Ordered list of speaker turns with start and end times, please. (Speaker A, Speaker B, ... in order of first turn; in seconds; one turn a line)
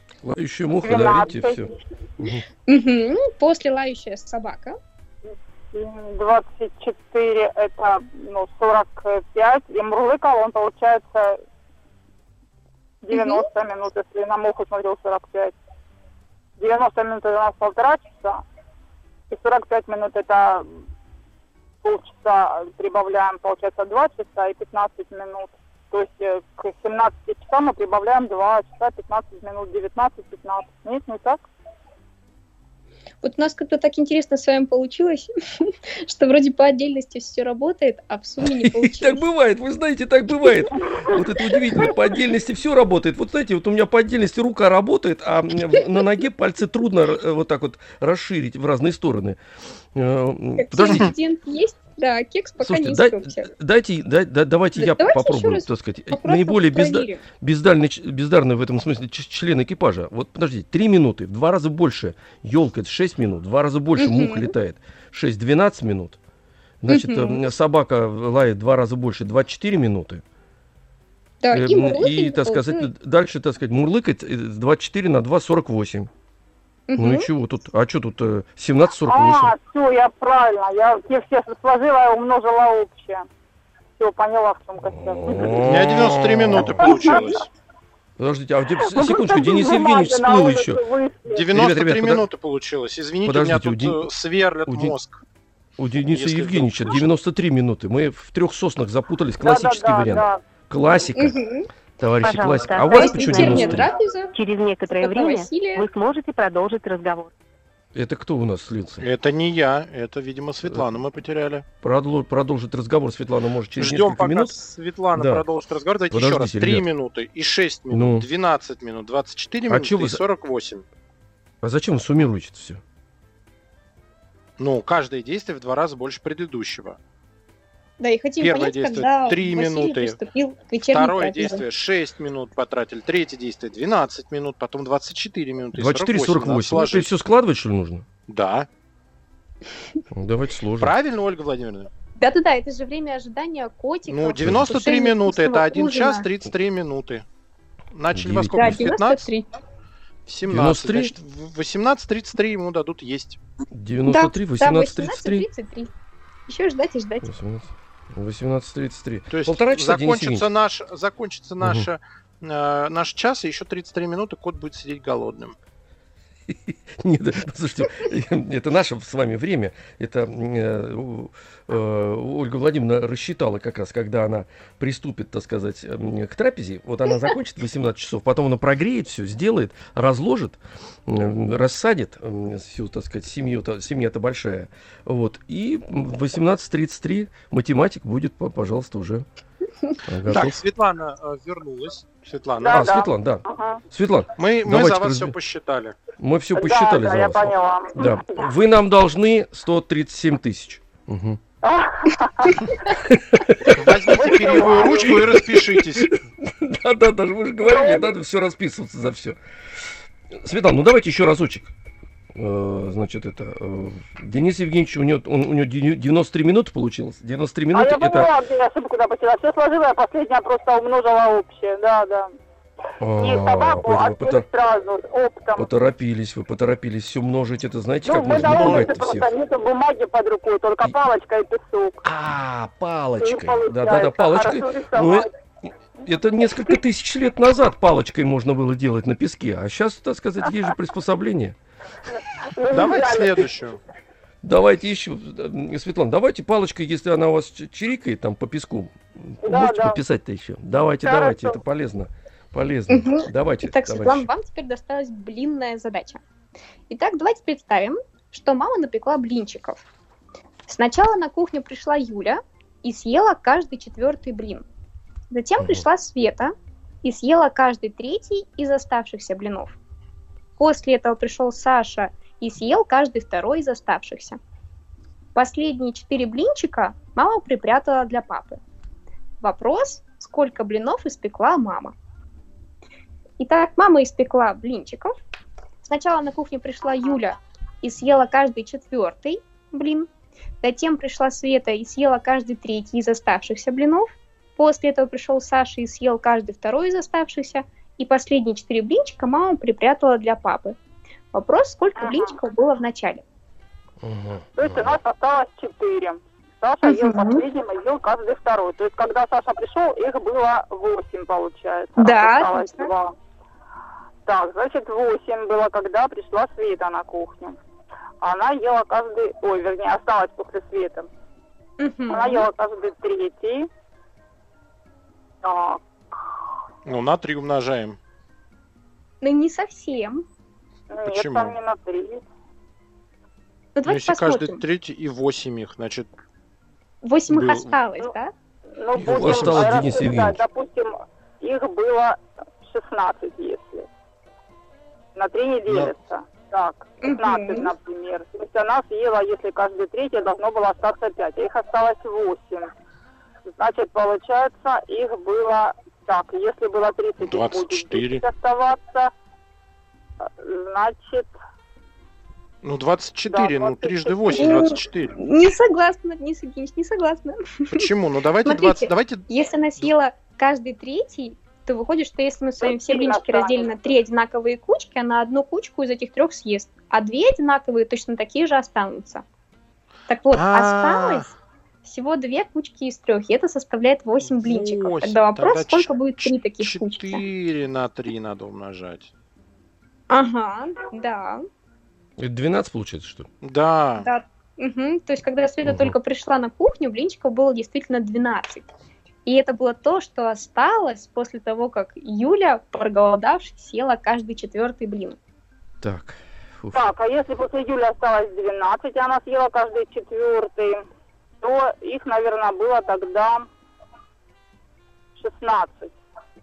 Speaker A: 0.2-2.5
Speaker B: 0.8-1.7
Speaker C: 2.7-4.8
Speaker B: 5.7-11.4
Speaker B: 13.0-15.5
Speaker C: 13.1-13.4
Speaker B: 16.6-18.4
Speaker B: 19.3-20.7
Speaker B: 21.8-31.5
Speaker C: 33.2-39.2
Speaker A: 38.4-49.4
Speaker A: 49.9-51.1
Speaker C: 50.6-53.5
Speaker A: 52.6-66.2
Speaker C: 54.8-57.2
Speaker C: 64.0-64.5
Speaker A: 66.8-70.2
Speaker C: 66.9-67.4
Speaker C: 71.4-72.9
Speaker A: 71.5-76.1
Speaker C: 76.9-77.3
Speaker A: 77.0-79.5
Speaker B: 79.1-83.3
Speaker B: 84.0-85.7
Speaker A: 84.8-87.0
Speaker D: 85.4-87.5
Speaker B: 86.8-87.3
Speaker A: 88.2-90.8
Speaker B: 88.8-91.5
Speaker D: 91.3-95.2
Speaker A: 91.5-92.3
Speaker A: 93.2-94.0
Speaker A: 94.7-95.0
Speaker A: 95.8-101.4
Speaker D: 96.1-97.1
Speaker B: 99.4-100.4
Speaker C: 101.2-101.7
Speaker A: 102.0-103.9
Speaker E: 102.2-107.3
Speaker C: 102.9-104.3
Speaker C: 104.9-105.9
Speaker A: 108.0-109.1
Speaker D: 109.0-111.7
Speaker A: 111.8-114.6
Speaker D: 113.8-120.9
Speaker A: 115.2-115.5
Speaker A: 116.1-116.9
Speaker A: 117.9-118.3
Speaker A: 119.7-120.2
Speaker A: 121.6-122.8
Speaker D: 124.6-127.0
Speaker C: 128.0-131.6
Speaker D: 128.4-130.2
Speaker D: 130.9-137.1
Speaker A: 135.7-138.1
Speaker D: 138.3-138.7
Speaker A: 140.1-140.9
Speaker D: 140.8-141.9
Speaker C: 142.2-146.3
Speaker D: 144.1-147.2
Speaker A: 144.4-144.7
Speaker D: 147.9-149.2
Speaker A: 148.1-148.9
Speaker C: 148.5-149.5
Speaker D: 150.3-153.4
Speaker A: 150.5-151.2
Speaker A: 153.7-155.5
Speaker C: 154.1-155.9
Speaker C: 156.5-157.3
Speaker A: 157.2-160.5
Speaker D: 159.3-165.6
Speaker A: 161.6-161.9
Speaker A: 166.5-189.3
Speaker A: 190.0-190.6
Speaker D: 190.3-192.9
Speaker B: 192.6-193.8
Speaker A: 192.6-195.3
Speaker D: 194.4-196.0
Speaker A: 196.2-201.4
Speaker B: 196.6-198.4
Speaker B: 201.6-202.8
Speaker A: 203.0-209.4
Speaker D: 203.7-206.2
Speaker B: 204.1-205.2
Speaker B: 207.6-208.1
Speaker A: 210.3-211.7
Speaker A: 212.3-218.3
Speaker B: 217.7-222.3
Speaker A: 223.0-224.4
Speaker B: 223.2-225.7
Speaker A: 225.6-229.3
Speaker B: 228.1-232.0
Speaker D: 228.3-229.0
Speaker A: 232.0-235.3
Speaker B: 233.2-235.3
Speaker A: 236.0-241.6
Speaker B: 242.1-243.5
Speaker D: 242.7-243.8
Speaker A: 244.4-254.3
Speaker B: 249.4-250.0
Speaker B: 251.1-251.6
Speaker C: 252.9-256.2
Speaker C: 256.9-259.9
Speaker C: 260.7-264.6
Speaker C: 265.3-269.8
Speaker A: 265.6-265.8
Speaker C: 270.6-274.4
Speaker C: 275.4-278.6
Speaker C: 279.4-281.9
Speaker C: 283.4-285.1
Speaker C: 285.9-290.1
Speaker C: 290.6-300.8
Speaker C: 301.3-303.2
Speaker B: 302.0-302.3
Speaker A: 304.0-305.0
Speaker B: 304.6-313.1
Speaker C: 306.8-307.4
Speaker C: 312.0-312.9
Speaker B: 314.3-317.6
Speaker B: 318.2-321.1
Speaker C: 321.8-322.5
Speaker B: 322.1-323.7
Speaker B: 325.4-325.8
Speaker D: 326.9-328.0
Speaker C: 329.2-330.2
Speaker B: 330.9-332.2
Speaker D: 331.1-331.6
Speaker C: 333.8-334.6
Speaker D: 333.9-336.1
Speaker C: 337.0-338.3
Speaker D: 337.3-337.7
Speaker B: 338.8-343.9
Speaker A: 339.0-340.4
Speaker D: 339.0-339.9
Speaker B: 345.2-352.7
Speaker D: 345.7-345.9
Speaker C: 347.0-347.7
Speaker B: 353.5-359.1
Speaker D: 357.2-358.2
Speaker B: 360.2-361.3
Speaker D: 362.6-365.2
Speaker B: 363.3-364.6
Speaker C: 364.3-367.8
Speaker D: 367.7-369.2
Speaker C: 368.4-379.2
Speaker B: 372.6-373.7
Speaker C: 380.1-381.3
Speaker D: 380.3-381.3
Speaker C: 381.9-387.2
Speaker D: 384.2-389.1
Speaker C: 390.1-391.5
Speaker A: 392.2-393.3
Speaker D: 393.4-394.1
Speaker C: 394.0-398.7
Speaker A: 395.6-396.0
Speaker C: 399.3-405.2
Speaker A: 405.8-406.9
Speaker B: 406.7-410.8
Speaker B: 411.4-413.5
Speaker B: 415.2-415.9